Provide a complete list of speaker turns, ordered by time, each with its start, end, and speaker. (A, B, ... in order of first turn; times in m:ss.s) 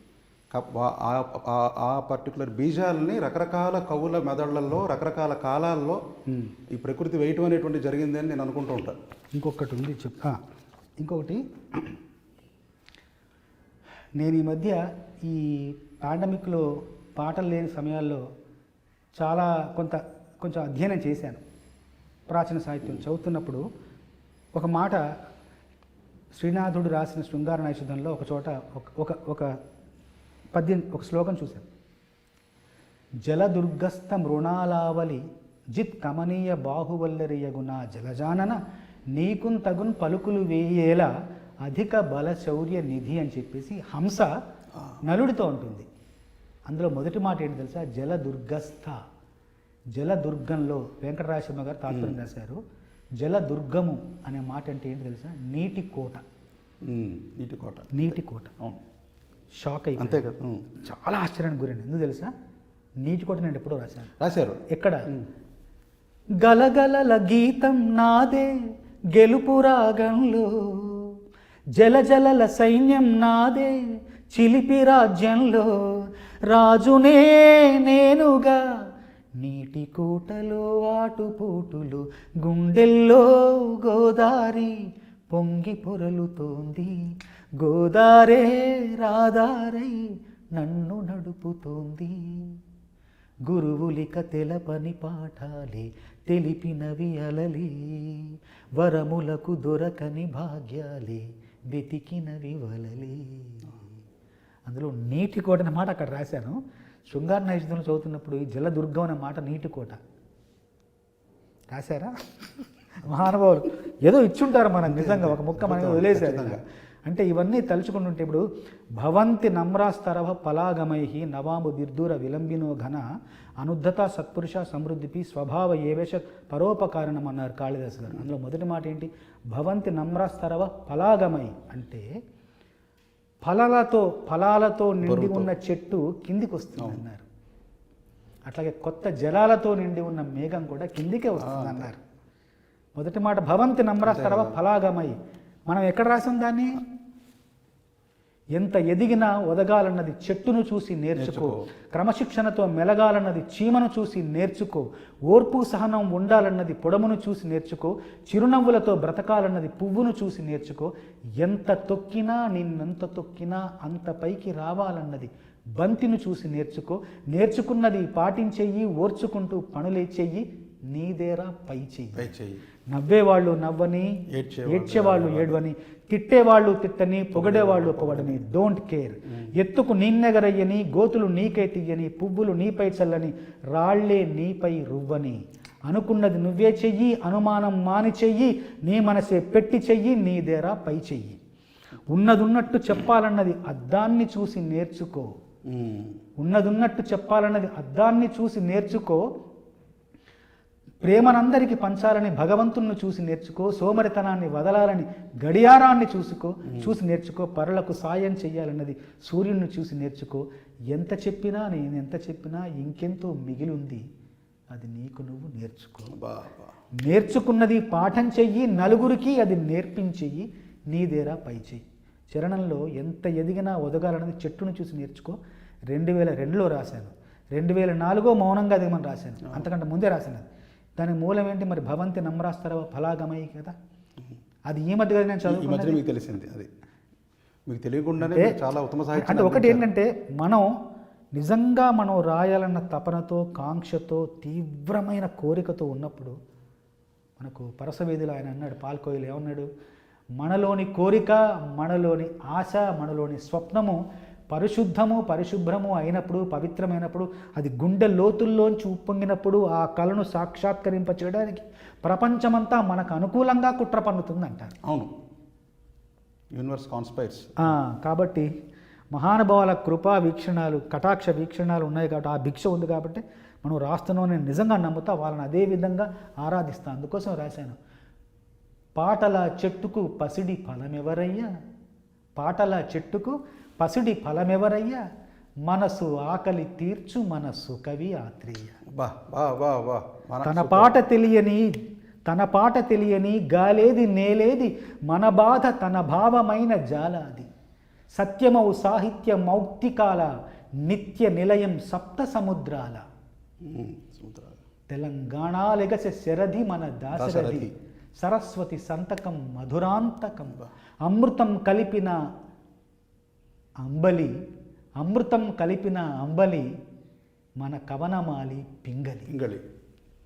0:00.5-0:06.0 A
0:06.3-0:06.5 B
0:06.7-0:09.0 A
0:09.4-0:10.4 B
0:11.0-0:12.0 B
0:14.2-0:16.6 B
0:17.2-0:18.2 B
0:19.2-0:21.4 B
0:22.3-0:23.6 B
0:24.6-0:25.0 B
0:26.4-0:29.5 B
0:30.6-0:31.7 B
0:33.3-0:35.2 B
0:35.8-0:38.6 B
0:39.2-0:41.1 B
0:41.6-0:44.3 B
0:45.1-0:45.9 B
0:46.7-0:49.0 B
0:50.0-0:52.6 B
0:51.9-0:52.2 A
0:53.2-0:56.2 B
0:56.8-0:58.8 A
0:57.9-0:58.6 B
0:59.6-1:00.3 B
1:00.0-1:00.8 A
1:00.8-1:02.3 B
1:03.0-1:04.1 B
1:04.2-1:05.2 A
1:04.7-1:05.0 B
1:06.4-1:08.5 B
1:09.2-1:11.1 B
1:11.8-1:13.8 B
1:14.3-1:18.6 B
1:19.4-1:24.8 B
1:25.3-1:27.0 B
1:27.6-1:30.0 B
1:30.6-1:32.6 B
1:33.5-1:43.7 B
1:44.7-1:50.0 B
1:51.7-1:58.4 B
1:54.8-1:56.6 A
1:59.0-2:03.0 B
2:03.6-2:12.0 B
2:13.5-2:17.2 B
2:15.0-2:15.5 A
2:18.5-2:22.0 B
2:21.4-2:21.9 A
2:23.0-2:25.2 B
2:24.0-2:24.6 A
2:25.7-2:26.8 B
2:28.6-2:52.3 B
2:31.2-2:31.6 A
2:52.2-2:52.6 A
2:52.9-2:54.1 B
2:54.4-2:55.6 A
2:54.7-3:11.4 B
2:57.3-2:58.4 A
3:12.1-3:15.3 B
3:15.7-3:16.2 A
3:16.4-3:19.2 B
3:21.0-3:34.0 B
3:34.7-3:36.2 B
3:36.1-3:36.7 A
3:37.0-3:45.4 B
3:45.9-3:50.5 B
3:51.0-3:53.8 B
3:54.7-3:56.0 B
3:55.4-3:56.7 A
3:57.7-3:59.9 A
3:58.2-3:58.6 B
3:59.2-4:00.7 B
4:01.4-4:06.4 B
4:07.4-4:09.7 B
4:10.4-4:14.0 B
4:14.5-4:24.7 B
4:24.8-4:25.1 A
4:26.6-4:27.7 A
4:27.6-4:28.5 B
4:29.1-4:37.8 B
4:39.0-4:41.5 B
4:42.4-4:45.0 B
4:45.7-4:48.8 B
4:48.9-4:51.0 A
4:50.4-4:51.6 B
4:52.3-4:57.5 B
4:58.2-5:00.3 B
5:00.9-5:03.0 B
5:03.6-5:04.6 A
5:04.9-5:12.2 B
5:07.1-5:07.7 A
5:13.8-5:14.3 B
5:15.0-5:16.7 B
5:17.6-5:19.3 B
5:19.3-5:19.6 A